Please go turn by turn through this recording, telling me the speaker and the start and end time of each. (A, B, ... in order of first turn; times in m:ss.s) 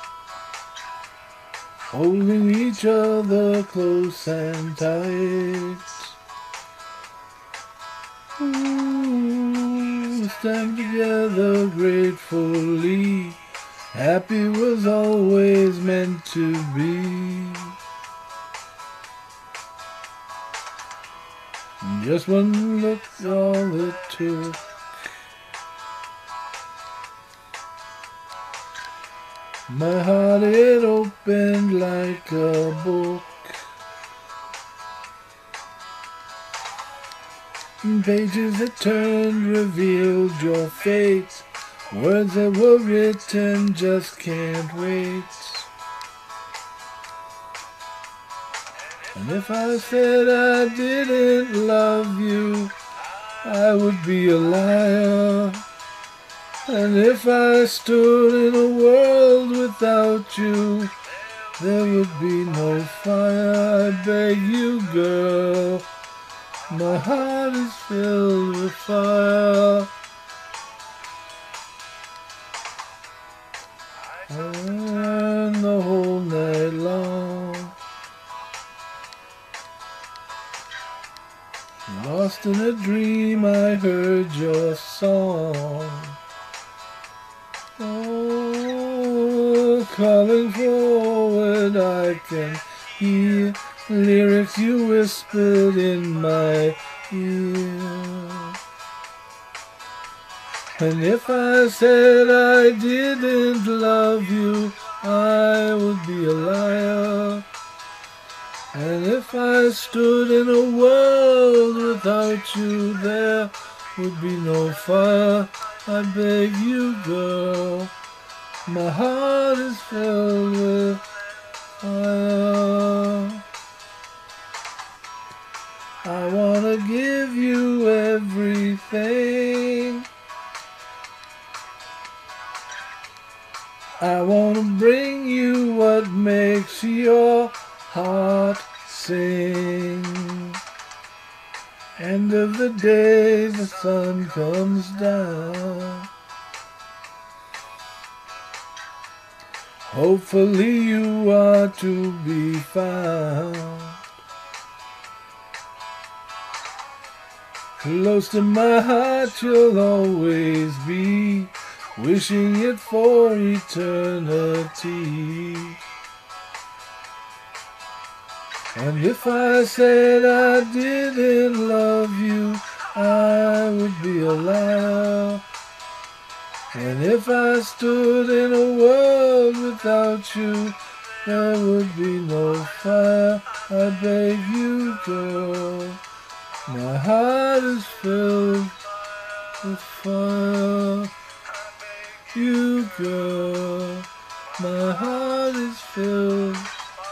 0:01.9-0:06.2 A
0:08.4-0:17.8 A
0:21.8-0:24.7 A
0:29.7-0:33.6 A
0:37.8-0:45.7 A
0:49.1-0:52.8 A
0:53.4-0:55.6 A
0:56.6-1:01.0 A
1:01.6-1:05.9 A
1:06.7-1:09.9 A
1:14.3-1:17.8 A
1:21.9-1:26.2 A
1:27.8-1:38.6 A
1:40.7-1:47.5 A
1:48.7-1:57.9 A
1:58.6-2:01.1 A
2:01.8-2:03.4 A
2:06.0-2:10.1 A
2:14.0-2:20.6 A
2:22.0-2:26.1 A
2:29.8-2:34.0 A
2:37.8-2:45.8 A
2:48.7-2:55.4 A
2:56.7-3:06.0 A
3:06.7-3:08.8 A
3:09.6-3:11.1 A
3:12.3-3:16.9 A